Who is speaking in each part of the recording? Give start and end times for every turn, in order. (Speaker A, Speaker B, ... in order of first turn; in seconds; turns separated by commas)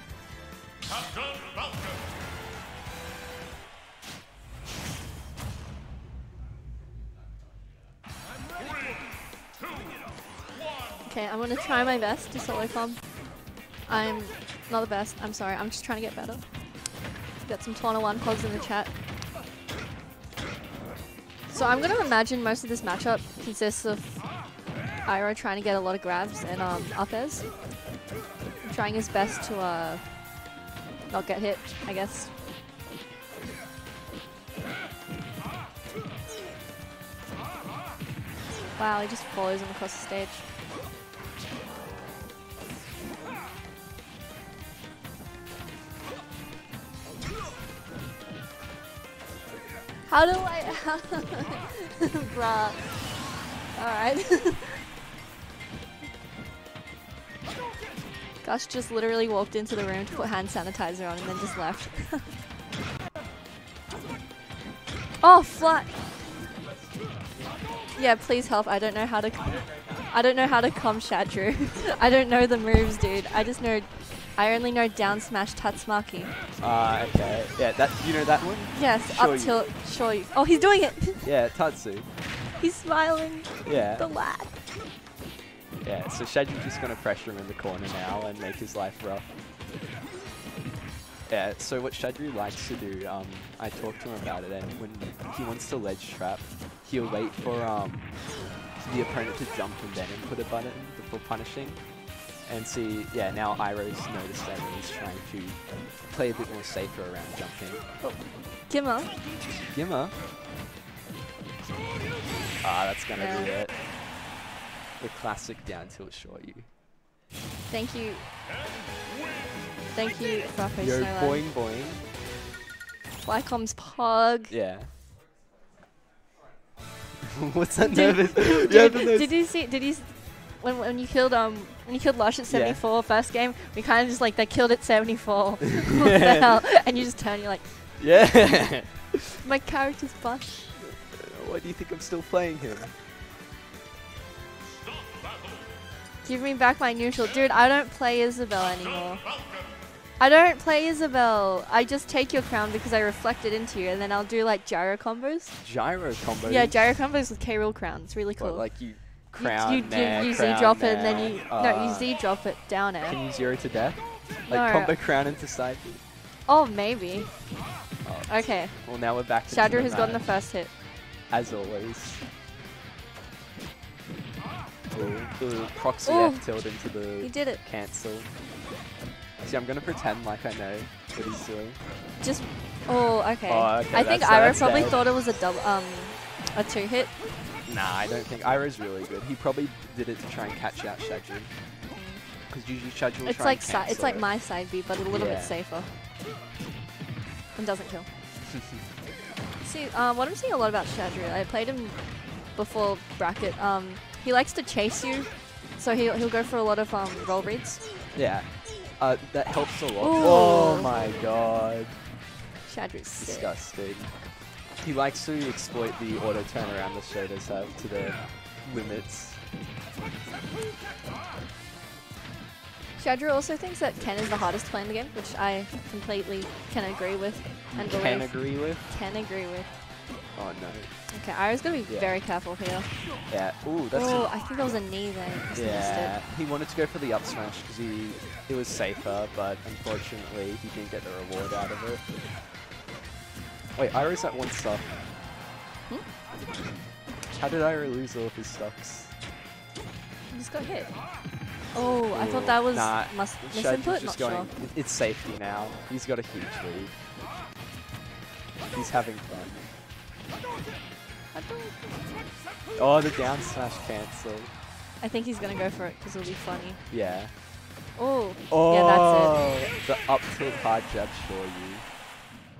Speaker A: 11.0-13.2, Speaker A: 13.8-16.4, Speaker A: 17.4-18.9, Speaker A: 21.5-24.4, Speaker A: 25.0-27.5, Speaker A: 28.6-30.0, Speaker A: 31.1-32.3, Speaker A: 38.8-40.4, Speaker A: 50.1-54.8, Speaker A: 58.4-62.3, Speaker A: 65.2-65.9, Speaker A: 68.0-76.3, Speaker B: 76.6-79.6, Speaker A: 78.7-81.3, Speaker B: 81.2-82.1, Speaker A: 82.5-84.5, Speaker B: 83.6-84.1, Speaker B: 85.8-89.3, Speaker B: 91.3-107.8, Speaker A: 108.0-109.2, Speaker B: 109.7-110.2, Speaker B: 112.6-113.8, Speaker A: 113.1-113.5, Speaker B: 115.0-116.7, Speaker A: 117.7-118.3, Speaker A: 119.9-121.4, Speaker B: 120.8-122.0, Speaker A: 123.2-124.5, Speaker B: 124.5-124.9, Speaker B: 127.2-129.3, Speaker A: 127.8-138.0, Speaker B: 132.5-132.8, Speaker B: 136.1-136.4, Speaker B: 138.0-139.3, Speaker A: 139.4-140.7, Speaker B: 140.8-142.9, Speaker A: 146.2-149.5, Speaker A: 150.2-155.6, Speaker B: 155.6-156.8, Speaker A: 156.4-163.2, Speaker B: 158.4-162.1, Speaker B: 163.1-166.0, Speaker A: 164.5-164.9, Speaker A: 166.4-167.6, Speaker B: 168.0-170.3, Speaker A: 168.2-170.7, Speaker B: 171.3-172.2, Speaker B: 174.9-178.3, Speaker A: 176.0-176.5, Speaker A: 177.2-177.6, Speaker B: 179.4-181.8, Speaker A: 182.2-187.2, Speaker B: 183.4-185.0, Speaker B: 187.6-191.5, Speaker A: 191.9-192.2, Speaker B: 192.5-194.2, Speaker A: 193.2-195.9, Speaker B: 195.1-195.6, Speaker A: 197.5-198.1, Speaker A: 199.6-207.8, Speaker B: 208.1-212.0, Speaker A: 210.0-210.9, Speaker A: 212.6-213.5, Speaker B: 213.2-214.2, Speaker B: 214.7-219.4, Speaker A: 223.0-229.7, Speaker B: 227.7-228.8, Speaker B: 230.3-231.1, Speaker A: 231.1-233.2, Speaker B: 231.9-232.1, Speaker B: 233.3-234.5, Speaker A: 233.9-236.2, Speaker B: 235.5-242.0, Speaker B: 243.7-244.9, Speaker B: 247.3-249.1, Speaker A: 250.3-250.9, Speaker A: 251.7-254.5, Speaker B: 252.1-257.0, Speaker B: 258.7-259.7, Speaker A: 261.3-261.8, Speaker B: 262.7-264.5, Speaker A: 265.0-266.8, Speaker B: 266.9-267.4, Speaker A: 267.9-269.6, Speaker B: 268.5-271.9